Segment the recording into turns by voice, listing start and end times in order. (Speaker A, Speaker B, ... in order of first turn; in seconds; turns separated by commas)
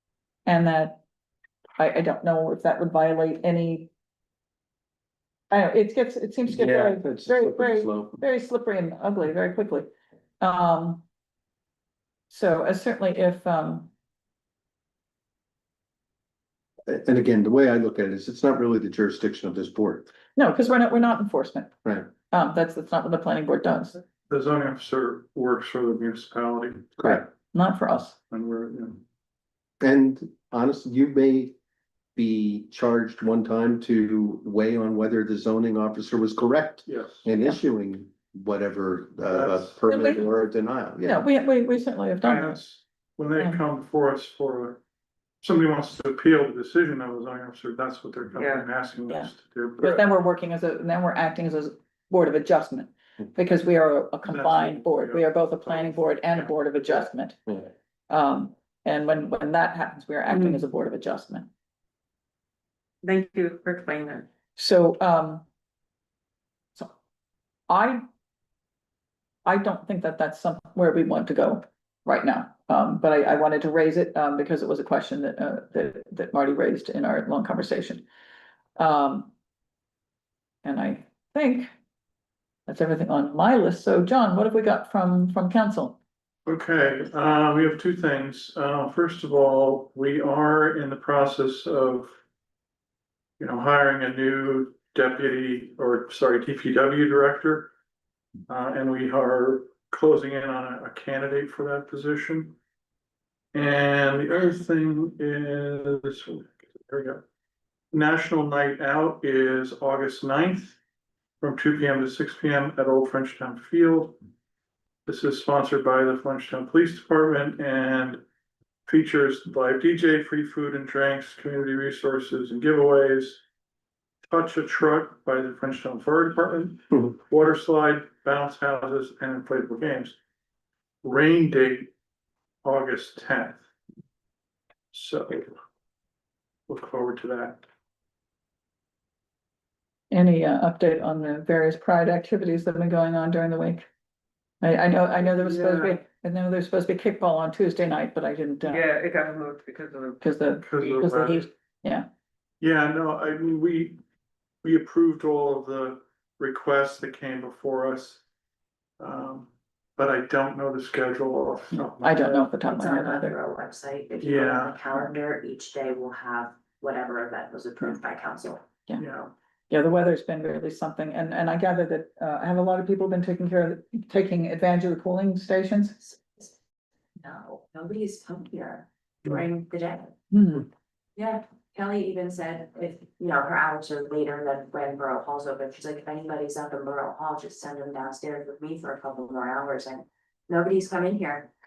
Speaker A: 0.5-1.0, Speaker A: 1.8-3.9, Speaker A: 5.5-9.9, Speaker B: 6.5-8.2, Speaker A: 10.4-11.0, Speaker A: 12.3-13.9, Speaker B: 16.9-20.1, Speaker A: 20.4-21.7, Speaker A: 22.3-24.0, Speaker C: 24.3-26.9, Speaker A: 27.0-28.2, Speaker C: 28.3-29.0, Speaker B: 29.8-31.5, Speaker B: 32.1-41.3, Speaker C: 36.9-37.3, Speaker C: 39.3-39.8, Speaker A: 39.9-40.2, Speaker A: 41.0-42.6, Speaker C: 42.2-44.8, Speaker A: 43.4-43.6, Speaker C: 45.4-50.0, Speaker D: 48.4-48.6, Speaker A: 49.1-61.5, Speaker C: 54.2-56.5, Speaker D: 60.3-60.6, Speaker D: 63.0-64.3, Speaker A: 64.5-65.4, Speaker A: 67.7-68.0, Speaker A: 69.4-78.0, Speaker A: 78.8-79.3, Speaker A: 80.6-81.7, Speaker A: 82.7-86.0, Speaker C: 86.5-92.2, Speaker C: 93.4-97.7, Speaker C: 98.5-102.6, Speaker C: 103.5-107.2, Speaker C: 107.9-110.8, Speaker C: 111.4-114.2, Speaker C: 115.0-118.2, Speaker C: 118.9-123.4, Speaker C: 124.2-130.2, Speaker C: 131.0-131.9, Speaker C: 132.6-133.6, Speaker C: 134.9-135.5, Speaker C: 136.7-137.6, Speaker A: 140.1-143.8, Speaker A: 144.6-148.9, Speaker D: 145.3-146.0, Speaker D: 148.6-151.0, Speaker A: 150.2-152.1, Speaker C: 150.6-151.5, Speaker C: 152.6-154.0, Speaker C: 154.6-158.2, Speaker C: 159.0-162.2, Speaker A: 161.7-163.3, Speaker E: 162.0-168.6, Speaker C: 164.2-164.8, Speaker C: 169.0-169.3, Speaker A: 169.7-176.0, Speaker E: 176.0-176.6, Speaker E: 177.2-180.1, Speaker A: 180.3-180.7, Speaker E: 181.2-191.5